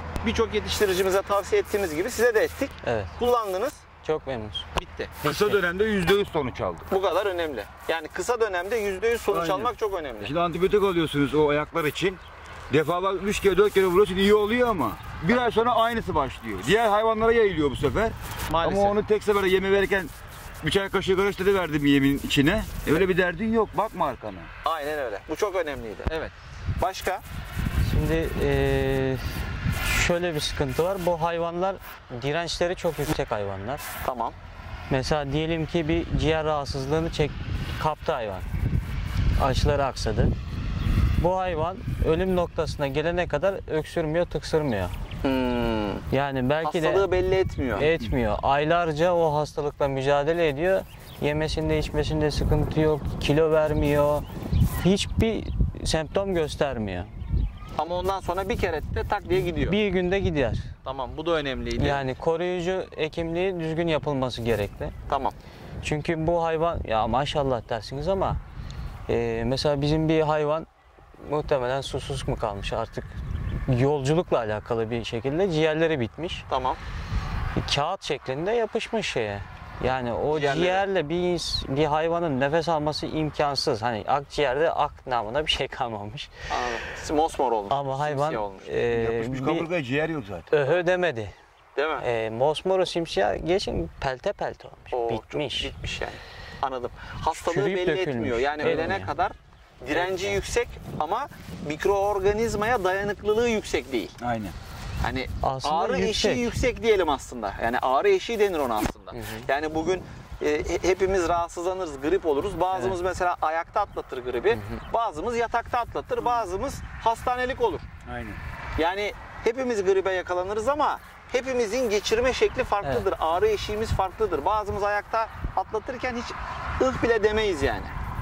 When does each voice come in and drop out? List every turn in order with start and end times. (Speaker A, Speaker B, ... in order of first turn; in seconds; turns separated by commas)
Speaker A: 0.2-3.8, Speaker B: 2.8-3.1, Speaker B: 4.0-4.7, Speaker A: 4.8-5.1, Speaker B: 5.2-5.6, Speaker C: 5.2-6.9, Speaker A: 6.9-10.3, Speaker C: 9.3-24.5, Speaker A: 18.5-19.0, Speaker A: 24.6-27.2, Speaker B: 27.9-33.8, Speaker A: 34.0-34.4, Speaker B: 34.9-38.5, Speaker B: 39.4-40.3, Speaker B: 41.2-45.0, Speaker A: 45.2-46.0, Speaker B: 46.1-47.1, Speaker A: 46.6-47.9, Speaker B: 47.8-54.2, Speaker B: 54.8-57.1, Speaker A: 57.8-59.8, Speaker B: 59.6-60.7, Speaker A: 60.8-62.0, Speaker B: 61.8-64.9, Speaker A: 65.1-65.3, Speaker B: 65.8-68.4, Speaker B: 69.1-73.1, Speaker B: 73.7-76.5, Speaker A: 76.5-76.8, Speaker B: 77.6-86.3, Speaker A: 80.3-80.8, Speaker A: 86.5-88.7, Speaker B: 87.7-89.7, Speaker C: 88.9-90.5, Speaker B: 90.5-91.3, Speaker A: 91.8-92.0, Speaker B: 92.0-95.7, Speaker A: 94.9-104.2, Speaker B: 97.4-99.1, Speaker C: 98.6-99.0, Speaker B: 99.9-100.4, Speaker C: 104.2-104.6, Speaker A: 105.0-117.8, Speaker B: 105.4-106.5, Speaker B: 109.1-109.5, Speaker B: 112.7-113.0, Speaker B: 114.5-114.8, Speaker C: 118.1-118.4, Speaker A: 118.8-127.9